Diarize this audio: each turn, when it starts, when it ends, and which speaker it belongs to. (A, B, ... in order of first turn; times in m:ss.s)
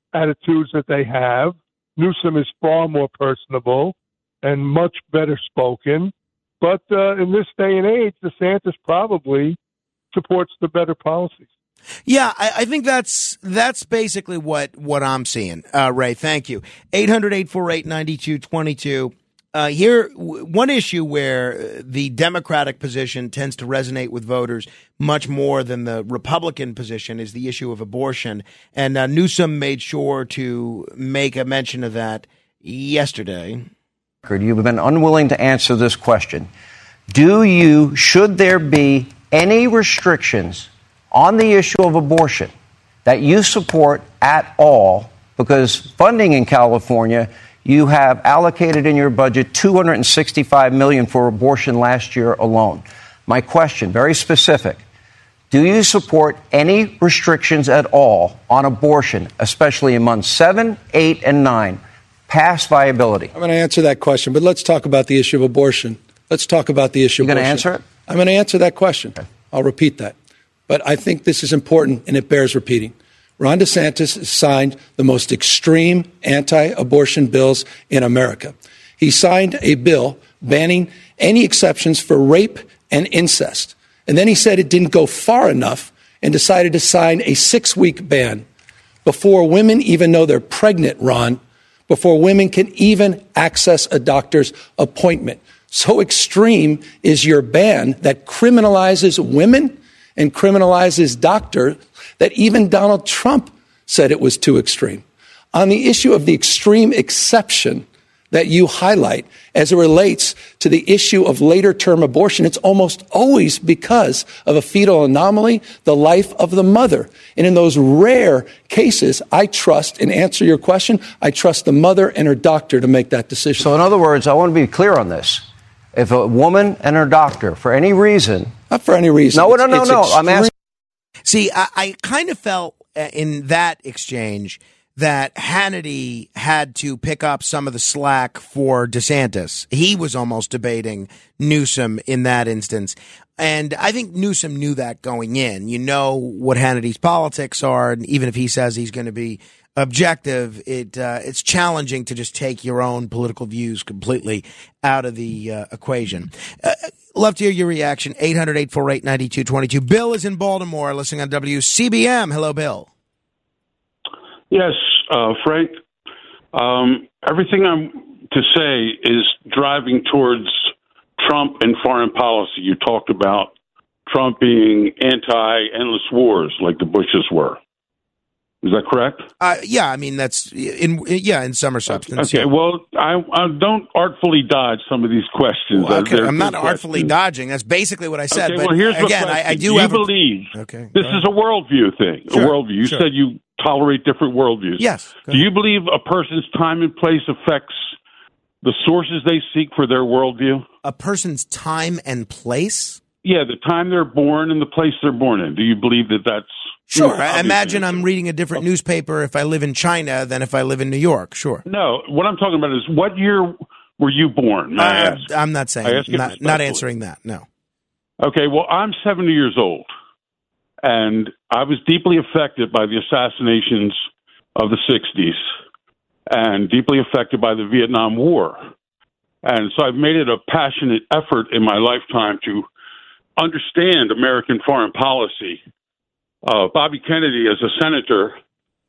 0:00.1-0:09.6 A
0:10.1-0:11.5 A
0:12.1-0:33.7 B
0:34.2-0:36.5 C
0:37.1-0:42.5 C
0:43.0-0:54.8 C
0:55.5-1:03.3 C
1:03.3-1:10.2 D
1:07.2-1:07.8 C
1:10.7-1:28.4 D
1:29.0-2:03.7 D
2:03.6-2:08.5 C
2:08.7-2:10.5 D
2:09.3-2:10.5 C
2:11.3-2:42.9 B
2:44.5-2:45.7 E
2:46.5-2:53.5 E
2:54.1-2:57.6 E
2:58.6-2:59.2 E
2:59.4-3:02.5 B
3:02.0-3:07.1 E
3:05.7-3:11.2 B
3:08.3-3:17.8 E
3:12.3-3:13.1 B
3:14.8-3:15.5 B
3:18.6-3:20.6 E
3:20.8-3:23.0 B
3:23.2-3:28.0 E
3:26.9-3:31.6 B
3:31.7-3:35.3 E
3:34.8-3:37.5 B
3:35.8-3:36.8 E
3:38.2-3:39.9 E
3:40.8-3:44.0 E
3:44.6-3:45.4 E
3:46.3-3:48.7 E
3:49.4-3:52.7 E
3:53.4-3:55.6 E
3:56.5-3:58.3 E